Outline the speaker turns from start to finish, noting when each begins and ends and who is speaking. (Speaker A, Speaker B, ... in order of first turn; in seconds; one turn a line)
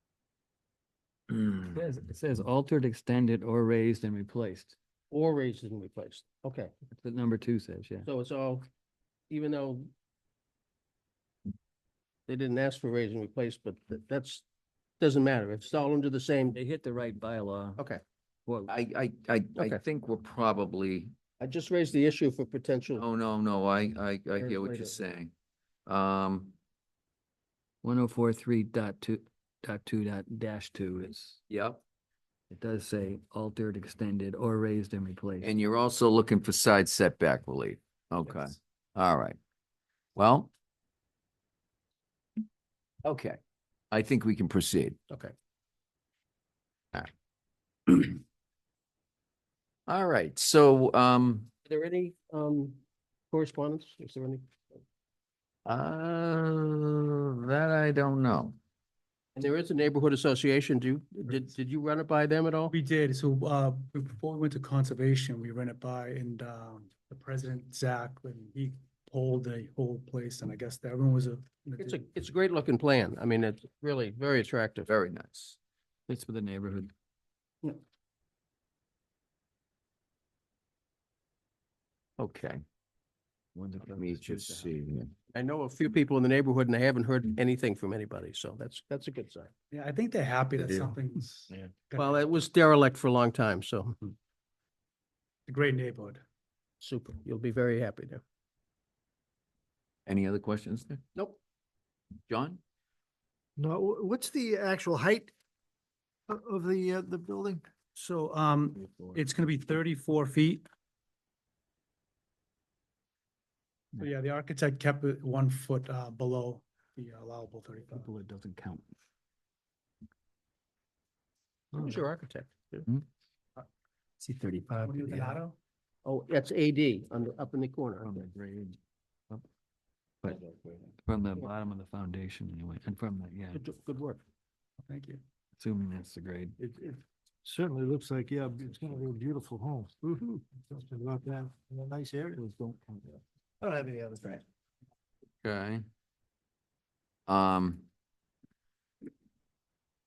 Speaker A: 1.3-1.7
Speaker B: 1.7-4.8
Speaker C: 5.1-6.7
Speaker B: 6.9-8.1
Speaker C: 8.0-8.7
Speaker C: 9.3-9.9
Speaker C: 12.3-14.4
Speaker C: 15.0-16.6
Speaker B: 16.5-17.8
Speaker B: 18.4-18.7
Speaker A: 18.7-21.1
Speaker C: 21.4-23.0
Speaker A: 22.9-25.3
Speaker C: 24.4-25.0
Speaker A: 25.9-26.5
Speaker B: 27.8-31.4
Speaker A: 31.5-31.8
Speaker B: 32.5-35.5
Speaker A: 35.4-39.4
Speaker A: 40.1-40.5
Speaker A: 43.0-43.4
Speaker A: 43.9-45.0
Speaker A: 47.9-48.2
Speaker A: 49.9-51.5
Speaker C: 51.6-52.8
Speaker C: 53.3-54.5
Speaker A: 55.6-58.5
Speaker C: 59.4-62.7
Speaker D: 62.7-72.0
Speaker C: 71.8-74.9
Speaker A: 74.9-75.6
Speaker B: 76.1-76.9
Speaker A: 82.2-82.6
Speaker B: 83.5-84.7
Speaker A: 83.9-85.1
Speaker C: 85.3-89.5
Speaker D: 89.7-92.2
Speaker A: 90.6-90.9
Speaker C: 92.0-94.0
Speaker D: 95.5-96.2
Speaker C: 96.8-98.2
Speaker A: 100.0-101.0
Speaker A: 102.3-102.6
Speaker E: 103.6-105.3
Speaker E: 106.3-107.6
Speaker D: 107.9-110.6
Speaker B: 108.8-109.2
Speaker D: 114.0-118.1
Speaker B: 117.9-118.8
Speaker C: 121.7-122.9
Speaker A: 124.2-125.3
Speaker B: 124.3-124.8
Speaker D: 124.8-125.6
Speaker C: 126.0-128.2
Speaker B: 128.0-128.8
Speaker B: 130.2-133.6
Speaker C: 133.5-134.2
Speaker D: 134.8-135.2
Speaker B: 135.6-136.6
Speaker E: 136.6-142.6
Speaker B: 142.4-143.1
Speaker E: 143.6-144.4
Speaker A: 145.4-145.8
Speaker A: 147.3-147.9